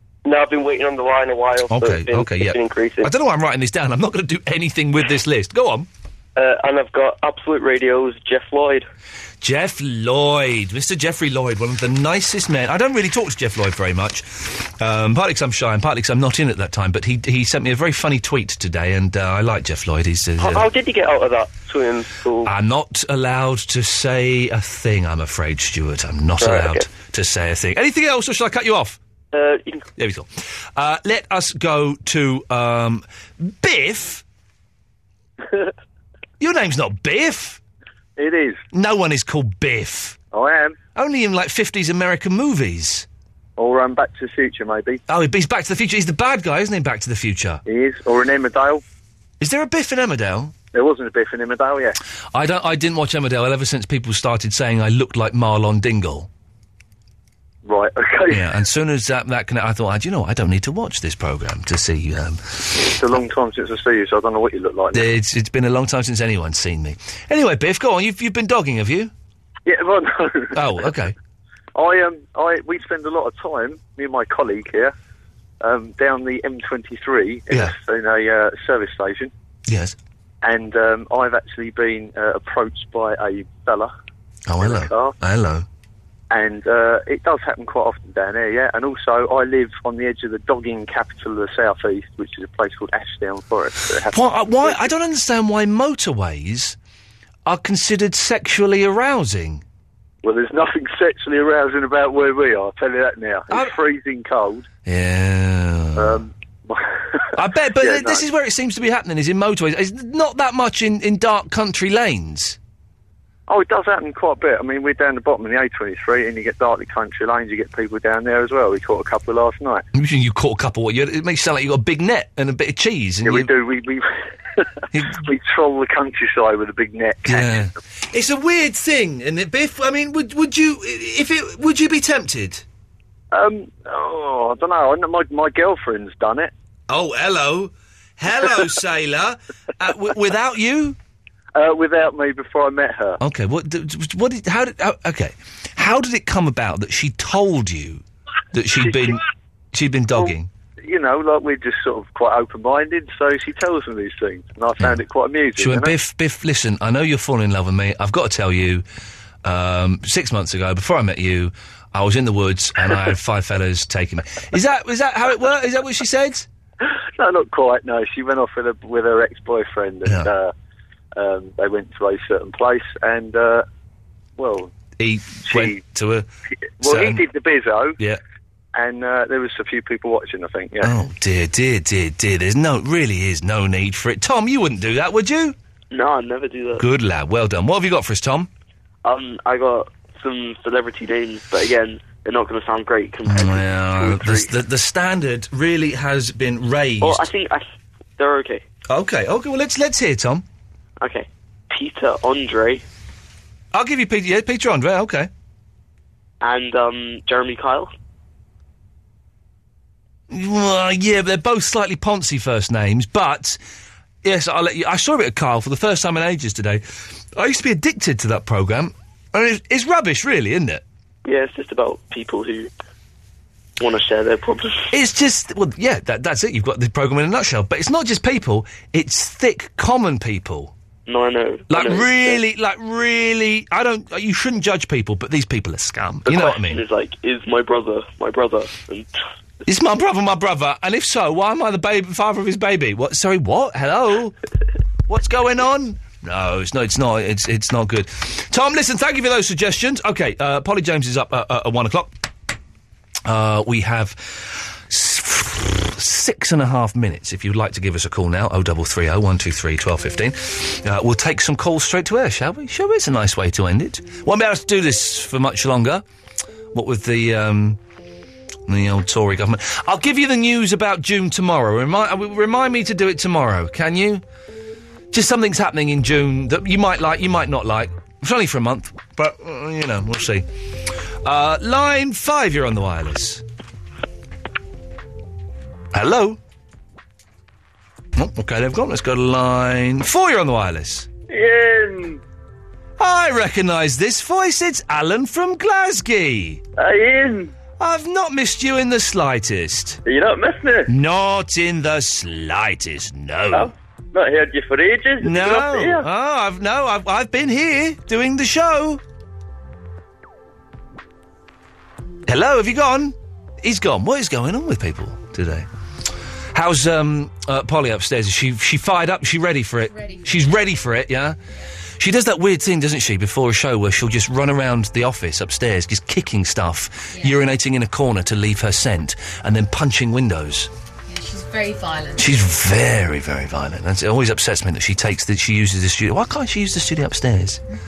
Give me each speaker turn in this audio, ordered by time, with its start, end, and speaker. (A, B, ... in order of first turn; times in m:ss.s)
0:00.2-0:03.1 A
0:01.7-0:05.9 B
0:06.4-0:08.9 A
0:09.4-0:20.6 B
0:20.4-0:22.5 A
0:22.4-0:29.0 B
0:26.4-0:26.8 A
0:29.3-0:29.8 A
0:30.0-0:34.2 B
0:36.4-0:37.6 B
0:38.2-0:38.6 C
0:38.7-0:40.2 B
0:40.3-0:40.8 C
0:41.0-0:43.0 B
0:43.6-0:45.0 C
0:45.1-0:47.6 B
0:47.7-0:48.8 C
0:49.4-0:50.6 B
0:50.7-0:52.0 C
0:52.3-0:56.3 B
0:57.6-0:58.5 C
0:58.3-1:03.1 B
1:03.0-1:05.1 C
1:04.9-1:09.1 B
1:09.6-1:10.6 C
1:10.6-1:11.1 B
1:11.7-1:14.9 C
1:15.6-1:19.3 C
1:19.7-1:20.0 B
1:20.4-1:23.9 C
1:24.5-1:25.6 B
1:24.6-1:25.1 C
1:26.3-1:34.9 C
1:34.0-1:36.8 B
1:37.4-1:39.6 B
1:40.2-1:44.6 C
1:43.5-1:43.8 B
1:44.9-1:46.2 B
1:46.0-1:48.2 C
1:47.4-1:52.6 B
1:53.5-1:59.8 C
1:59.9-2:03.5 B
2:03.2-2:07.6 C
2:04.9-2:05.2 B
2:07.3-2:12.6 B
2:13.3-2:16.5 C
2:16.9-2:21.0 B
2:21.6-2:23.2 C
2:23.2-2:30.5 B
2:28.9-2:29.1 C
2:30.2-2:35.9 C
2:35.6-2:38.8 B
2:39.4-2:46.5 B
2:46.8-2:50.5 C
2:50.0-2:50.3 B
2:51.2-2:53.6 C
2:54.4-2:54.7 C
2:55.0-2:56.3 B
2:55.5-2:55.8 C
2:56.8-2:58.0 C
2:56.8-2:57.3 B
2:58.7-3:00.9 C
3:00.8-3:05.6 B
3:05.9-3:06.8 A
3:06.8-3:08.5 B
3:09.0-3:14.5 A
3:13.3-3:17.3 B
3:17.0-3:17.7 A
3:18.2-3:18.6 A
3:18.9-3:20.4 B
3:21.0-3:22.8 A
3:23.7-3:25.3 B
3:26.4-3:27.9 A
3:30.3-3:33.6 B
3:34.2-3:36.8 B
3:37.4-3:40.8 B
3:41.2-3:42.7 A
3:43.8-3:44.9 A
3:44.9-3:50.7 B
3:51.1-3:52.4 A
3:51.7-3:56.8 B
3:56.3-3:59.1 A
3:59.6-4:04.4 B
4:05.1-4:12.1 B
4:13.2-4:26.0 B
4:26.7-4:27.8 B
4:28.7-4:34.2 B
4:35.1-4:40.5 B
4:41.2-4:43.4 B
4:45.9-4:46.4 B
4:48.2-4:51.1 B
4:51.3-4:52.2 D
4:53.0-4:56.6 B
4:56.8-4:57.5 D
4:57.8-5:00.0 B
5:00.1-5:00.9 D
5:00.9-5:03.7 B
5:03.5-5:06.0 D
5:05.2-5:09.0 B
5:12.3-5:15.7 B
5:16.5-5:21.4 B
5:19.9-5:20.4 E
5:22.0-5:30.7 B
5:31.1-5:32.4 E
5:32.2-5:37.6 B